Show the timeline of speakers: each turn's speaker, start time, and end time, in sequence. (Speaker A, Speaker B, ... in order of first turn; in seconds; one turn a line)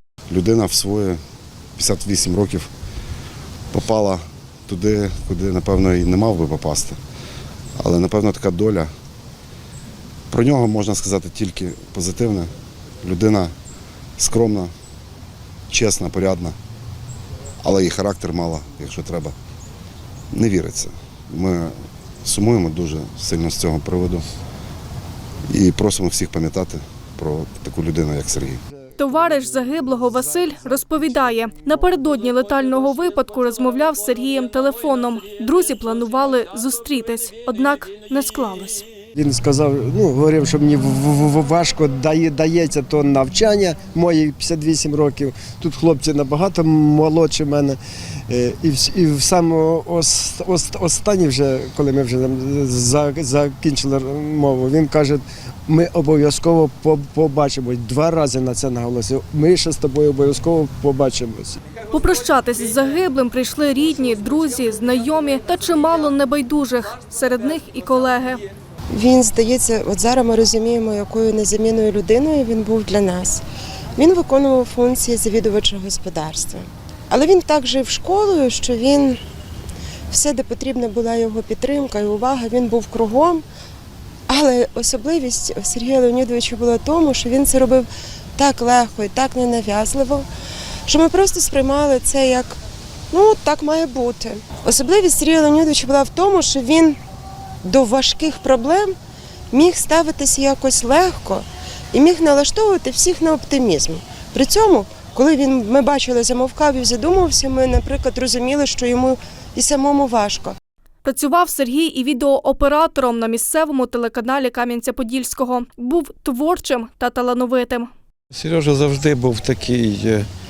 Speaker A: 0.3-1.2
Speaker A: 1.8-2.7
Speaker A: 3.7-7.0
Speaker A: 7.8-8.9
Speaker A: 10.3-12.5
Speaker A: 13.0-13.5
Speaker A: 14.2-14.7
Speaker A: 15.7-16.5
Speaker A: 17.6-19.3
Speaker A: 20.3-21.7
Speaker A: 22.2-24.2
Speaker A: 25.5-28.4
Speaker B: 29.0-38.8
Speaker C: 39.1-61.6
Speaker B: 61.9-68.4
Speaker D: 68.9-73.4
Speaker D: 74.0-79.2
Speaker D: 80.1-83.4
Speaker D: 84.3-90.3
Speaker D: 90.9-92.6
Speaker D: 93.1-97.0
Speaker D: 97.6-98.9
Speaker D: 99.5-110.5
Speaker B: 111.0-117.9
Speaker E: 118.3-120.3